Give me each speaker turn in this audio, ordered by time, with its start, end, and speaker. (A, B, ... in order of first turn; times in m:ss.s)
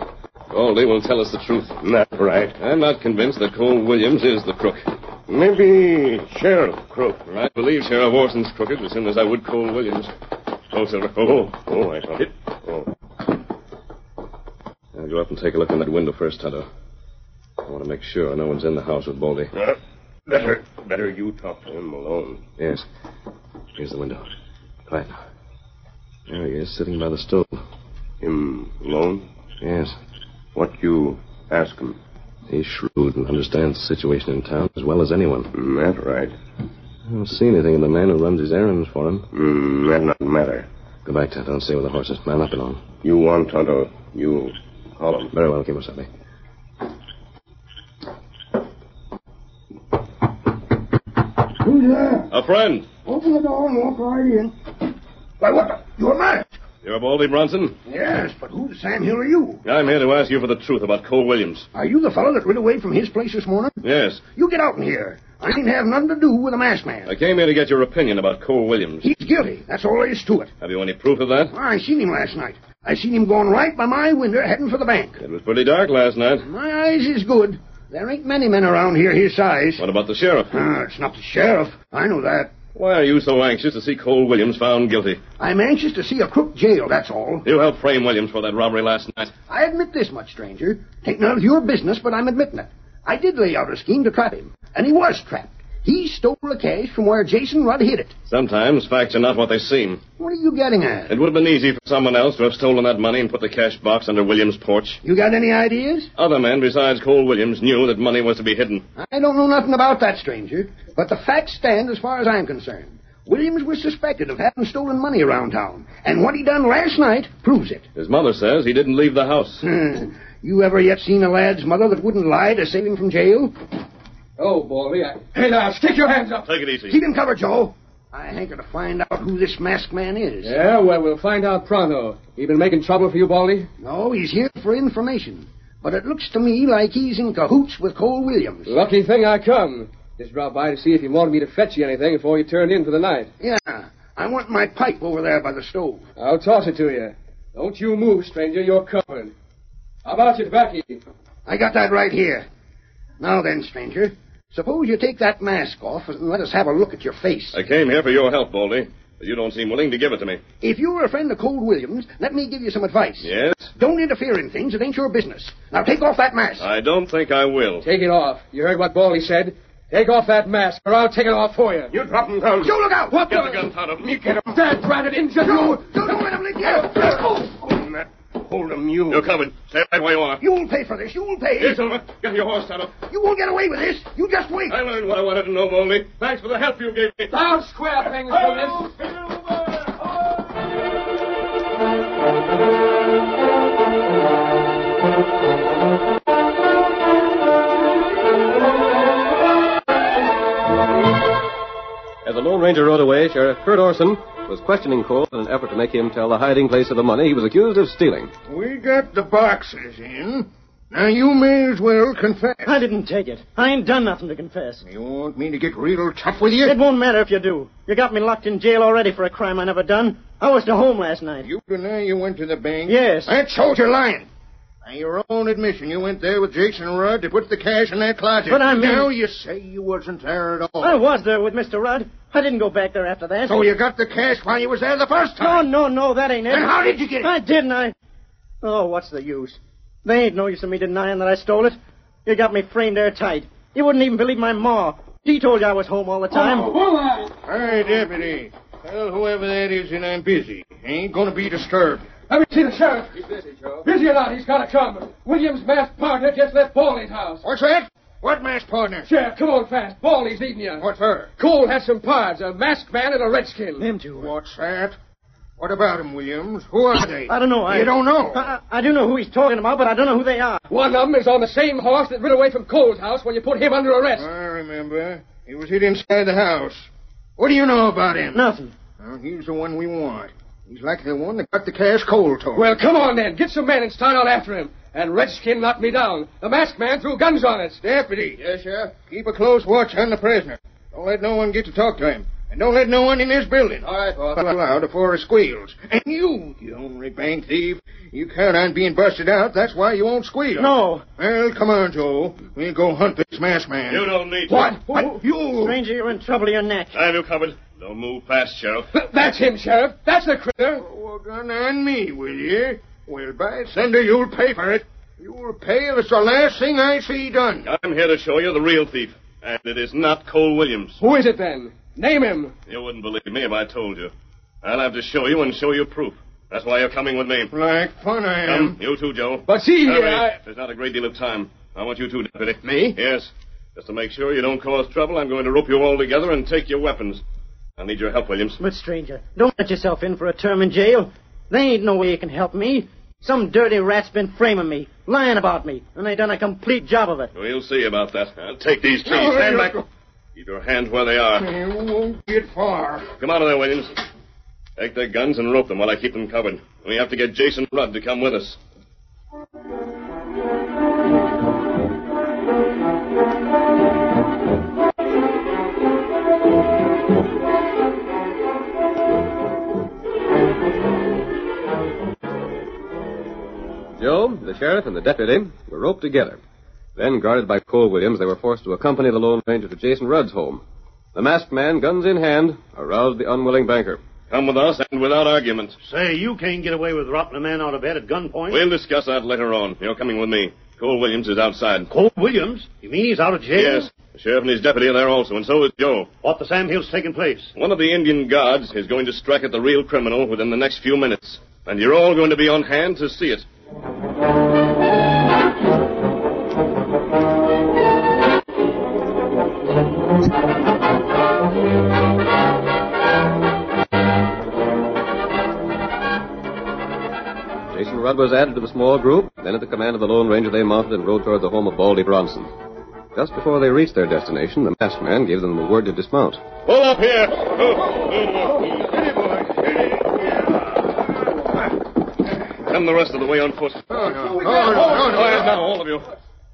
0:00.5-0:01.7 A
0:01.8-0:02.5 B
0:02.6-0:04.8 A
0:05.3-0:07.2 B
0:07.2-0:10.1 A
0:10.7-0:11.5 A
0:11.4-0:12.8 B
0:14.9-0:16.7 A
0:17.6-0:19.5 A
0:20.3-0:22.4 B
0:22.6-0:22.8 A
0:23.8-0:24.2 A
0:24.9-0:25.2 A
0:26.3-0:27.6 A
0:28.2-0:29.2 B
0:29.6-0:29.9 A
0:30.6-0:31.9 B
0:32.5-0:35.5 A
0:35.6-0:36.3 B
0:37.1-0:39.3 A
0:39.3-0:40.6 B
0:41.0-0:42.9 A
0:43.0-0:44.5 B
0:45.0-0:45.3 B
0:45.3-0:46.1 A
0:51.6-0:52.3 C
0:52.3-0:52.9 A
0:53.0-0:54.5 C
0:55.4-0:56.6 C
0:56.8-0:57.8 A
0:57.8-0:59.6 C
0:59.6-1:01.7 A
1:01.7-1:07.1 C
1:03.8-1:04.3 A
1:07.0-1:09.0 A
1:09.0-1:10.5 C
1:10.6-1:11.5 A
1:11.5-1:15.2 C
1:15.2-1:16.5 A
1:16.5-1:19.8 C
1:19.8-1:20.5 A
1:20.5-1:22.5 C
1:22.7-1:25.2 A
1:25.4-1:27.4 C
1:27.4-1:29.3 A
1:29.5-1:38.1 C
1:38.3-1:40.0 A
1:40.2-1:41.1 C
1:41.1-1:45.0 A
1:45.0-1:46.1 C
1:46.2-1:48.8 A
1:49.0-1:57.8 C
1:58.0-1:59.6 A
1:59.6-2:03.5 C
2:04.4-2:06.5 D
2:06.4-2:07.0 A
2:06.9-2:10.6 C
2:10.4-2:13.7 D
2:13.8-2:18.8 C
2:18.6-2:23.3 D
2:23.4-2:26.0 C
2:26.2-2:29.3 D
2:30.0-2:31.0 D
2:31.4-2:32.4 C
2:33.2-2:37.6 C
2:37.5-2:40.4 A
2:40.6-2:46.7 C
2:43.2-2:43.7 A
2:46.6-2:47.8 A
2:47.8-2:51.9 D
2:52.0-2:52.5 B
2:52.6-2:53.4 C
2:53.1-2:53.6 D
2:53.2-2:54.4 A
2:54.3-2:55.9 D
2:55.4-2:57.4 C
2:58.8-2:59.2 B
2:59.1-3:00.4 A
3:00.4-3:02.0 C
3:01.6-3:03.0 A
3:03.1-3:04.8 C
3:04.7-3:07.4 A
3:07.3-3:08.9 D
3:22.2-3:28.3 E
3:28.5-3:32.8 F
3:32.6-3:34.8 G
3:34.8-3:36.8 F
3:36.6-3:41.5 G
3:41.4-3:44.3 F
3:42.9-3:43.3 G
3:44.8-3:51.0 F
3:48.5-3:49.1 G
3:50.8-3:53.6 G
3:53.4-3:55.7 F
3:55.4-3:57.9 G
3:56.6-3:57.3 C
3:58.6-4:06.8 G
4:06.3-4:07.3 D
4:07.4-4:12.0 F
4:12.3-4:17.4 D
4:17.4-4:19.1 F
4:19.0-4:20.8 D
4:20.8-4:21.3 F
4:21.4-4:23.9 D
4:23.8-4:24.3 G
4:24.1-4:25.0 F
4:25.6-4:28.5 F
4:27.3-4:30.6 G
4:30.7-4:34.3 D
4:34.1-4:42.6 F
4:38.3-4:38.7 G
4:42.5-4:47.8 D
4:47.8-5:05.8 F
5:00.6-5:01.0 G
5:03.9-5:04.8 A
5:04.8-5:05.2 D
5:05.5-5:07.0 G
5:06.9-5:08.9 A
5:08.9-5:10.8 D
5:10.8-5:17.7 F
5:17.6-5:21.0 A
5:21.0-5:22.5 D
5:22.7-5:24.1 A
5:24.6-5:27.5 A
5:27.5-5:28.8 F
5:28.4-5:37.2 A
5:29.4-5:30.4 D
5:37.8-5:38.6 A
5:38.6-5:47.3 G
5:47.3-5:49.8 A
5:49.0-5:49.8 F
5:50.3-5:51.5 A
5:51.4-5:53.1 F
5:53.2-5:54.0 A
5:54.8-5:58.6 A
6:14.0-6:16.4 E
6:17.0-6:20.6 E
6:21.1-6:24.0 E
6:24.3-6:25.8 A
6:25.8-6:28.6 H
6:28.5-6:31.9 A
6:31.9-6:33.9 H
6:33.5-6:36.1 A
6:36.2-6:37.5 H
6:37.5-6:43.4 A
6:57.7-7:02.5 E
7:03.1-7:06.4 E
7:06.7-7:08.7 A
7:12.6-7:16.1 A
7:13.9-7:15.5 F